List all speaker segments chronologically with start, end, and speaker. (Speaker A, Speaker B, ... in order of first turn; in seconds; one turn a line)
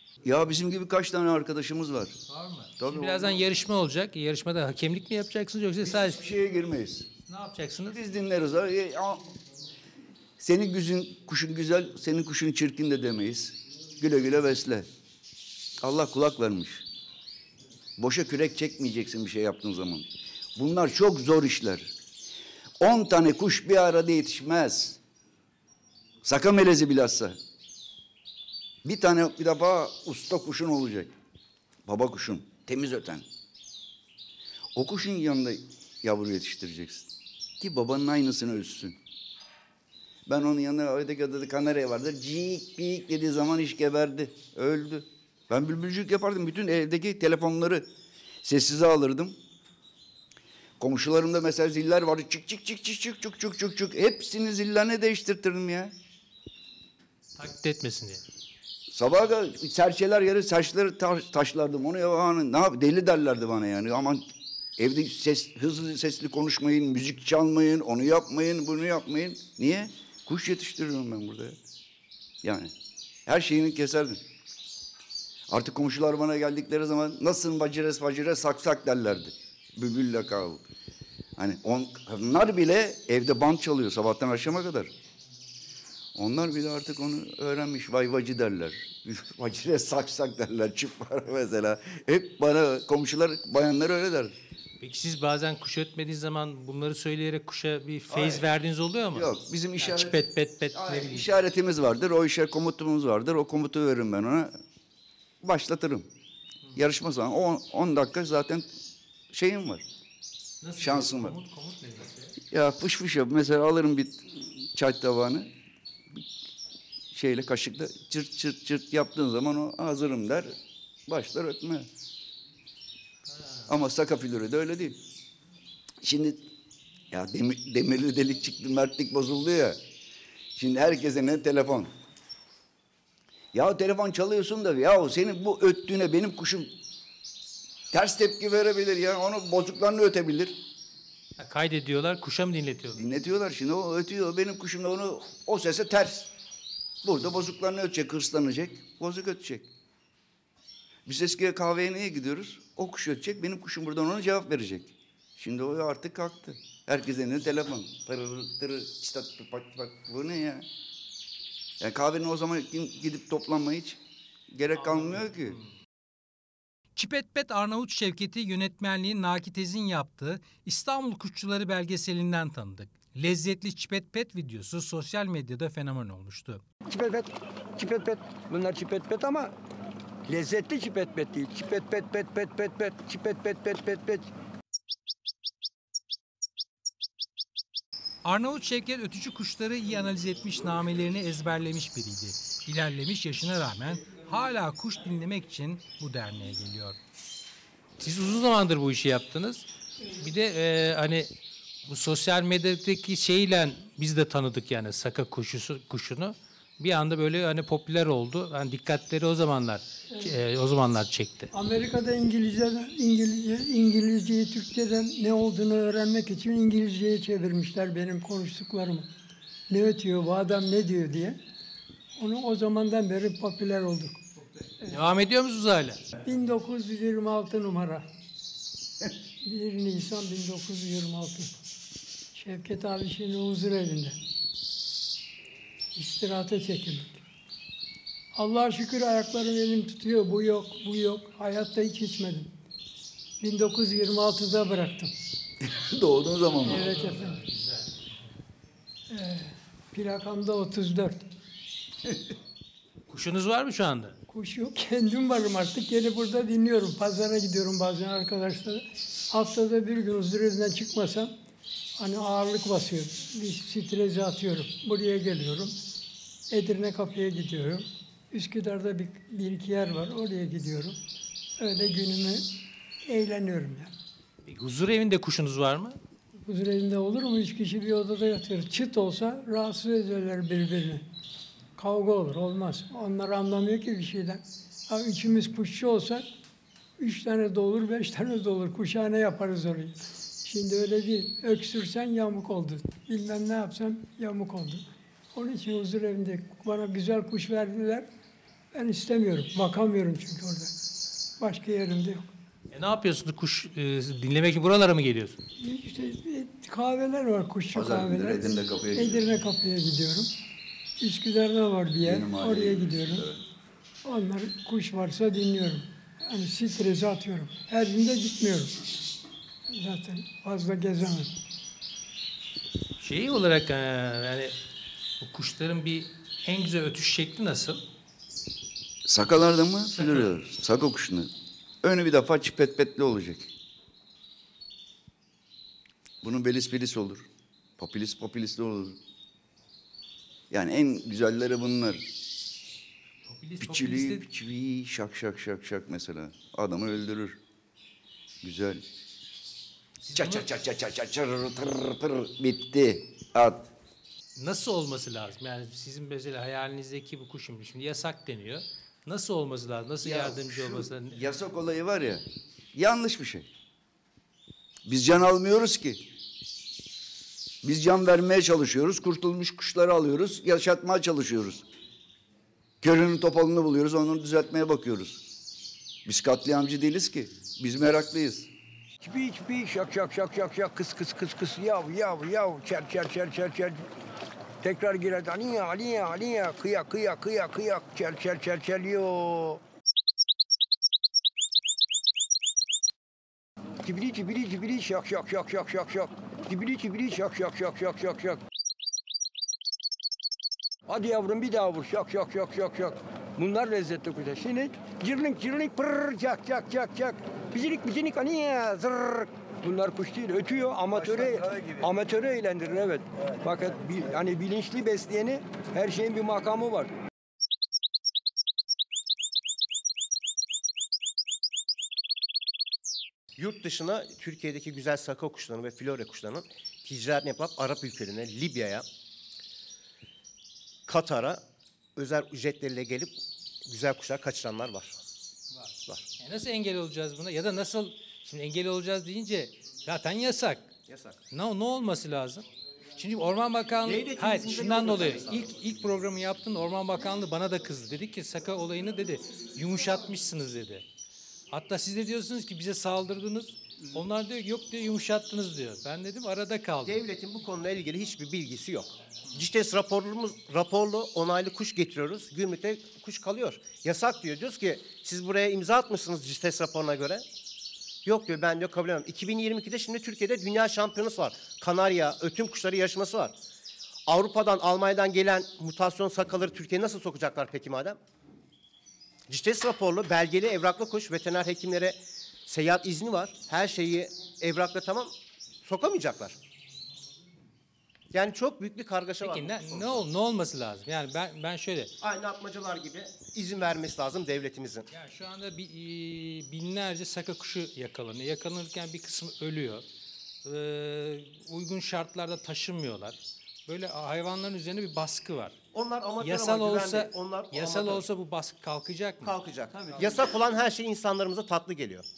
Speaker A: 0.2-2.2
Speaker B: 2.3-6.2
Speaker A: 2.8-3.5
Speaker A: 5.8-7.1
Speaker B: 7.3-8.0
Speaker A: 7.9-9.3
Speaker A: 10.4-14.9
Speaker A: 15.8-16.9
Speaker A: 18.0-21.9
Speaker A: 22.8-25.0
Speaker A: 26.2-27.4
Speaker A: 28.8-31.1
Speaker A: 31.9-33.3
Speaker A: 34.8-39.0
Speaker A: 40.3-47.9
Speaker A: 48.4-49.4
Speaker A: 50.8-55.9
Speaker B: 57.4-58.2
Speaker A: 58.9-64.3
Speaker A: 64.8-71.6
Speaker A: 72.4-72.7
Speaker A: 73.3-74.2
Speaker A: 75.5-80.6
Speaker A: 81.4-84.9
Speaker A: 86.2-94.4
Speaker B: 94.8-101.3
Speaker A: 98.1-98.5
Speaker A: 99.1-104.6
Speaker A: 105.4-106.1
Speaker A: 106.8-108.7
Speaker A: 109.3-109.9
Speaker B: 110.6-112.3
Speaker A: 110.8-111.4
Speaker A: 112.5-115.5
Speaker A: 117.1-121.9
Speaker B: 123.3-123.7
Speaker A: 123.7-125.0
Speaker A: 126.0-126.5
Speaker A: 127.1-129.8
Speaker A: 130.6-131.9
Speaker A: 133.5-136.8
Speaker A: 137.9-140.6
Speaker B: 141.4-143.0
Speaker A: 142.9-146.3
Speaker A: 147.0-149.7
Speaker A: 151.1-160.7
Speaker A: 161.8-164.0
Speaker A: 164.5-165.6
Speaker B: 164.8-165.6
Speaker B: 167.0-176.6
Speaker C: 176.9-179.5
Speaker C: 180.3-184.3
Speaker B: 188.2-197.0
Speaker B: 198.0-201.3
Speaker B: 201.9-211.5
Speaker D: 211.5-219.1
Speaker D: 219.7-221.4
Speaker D: 222.2-224.2
Speaker B: 224.9-226.0
Speaker D: 226.2-228.1
Speaker D: 229.4-231.5
Speaker D: 232.3-234.2
Speaker D: 235.9-237.2
Speaker D: 238.3-242.5
Speaker D: 243.4-245.1
Speaker A: 245.6-246.9
Speaker D: 246.6-247.4
Speaker B: 247.0-247.8
Speaker D: 249.1-251.3
Speaker B: 253.1-254.2
Speaker D: 254.3-261.3
Speaker D: 262.0-265.8
Speaker D: 266.5-271.0
Speaker D: 271.6-272.5
Speaker D: 273.1-273.9
Speaker B: 274.5-276.0
Speaker D: 276.5-281.1
Speaker D: 281.8-286.3
Speaker D: 287.0-298.1
Speaker D: 298.7-300.7
Speaker D: 301.4-302.3
Speaker B: 302.7-305.4
Speaker D: 305.6-308.4
Speaker A: 307.7-309.3
Speaker D: 308.9-310.3
Speaker D: 311.0-313.3
Speaker A: 312.0-313.4
Speaker D: 314.1-318.9
Speaker D: 319.7-321.3
Speaker B: 323.0-324.5
Speaker B: 325.2-327.8
Speaker A: 329.1-333.5
Speaker B: 329.9-330.3
Speaker A: 336.2-339.0
Speaker A: 340.5-342.1
Speaker B: 343.3-344.3
Speaker A: 343.6-347.4
Speaker A: 348.4-348.9
Speaker B: 350.0-350.5
Speaker A: 350.1-353.7
Speaker B: 354.4-361.2
Speaker A: 360.0-363.5
Speaker A: 364.9-366.1
Speaker A: 367.6-371.6
Speaker A: 372.8-375.2
Speaker A: 376.1-378.5
Speaker C: 379.0-383.8
Speaker C: 384.6-389.6
Speaker C: 393.8-398.4
Speaker C: 400.9-416.9
Speaker A: 410.9-411.9
Speaker E: 423.4-428.9
Speaker E: 430.9-431.4
Speaker E: 432.0-435.0
Speaker B: 435.5-440.7
Speaker E: 440.9-441.2
Speaker B: 441.3-442.4
Speaker B: 443.0-450.9
Speaker E: 443.8-445.5
Speaker B: 451.5-457.0
Speaker E: 456.9-467.2
Speaker E: 468.1-473.4
Speaker E: 474.1-478.0
Speaker E: 479.3-485.1
Speaker E: 485.6-486.4
Speaker E: 488.1-490.0
Speaker B: 489.2-491.9
Speaker E: 492.0-494.9
Speaker B: 494.9-499.9
Speaker B: 500.4-505.6
Speaker E: 505.7-508.0
Speaker B: 506.2-509.4
Speaker E: 509.2-512.1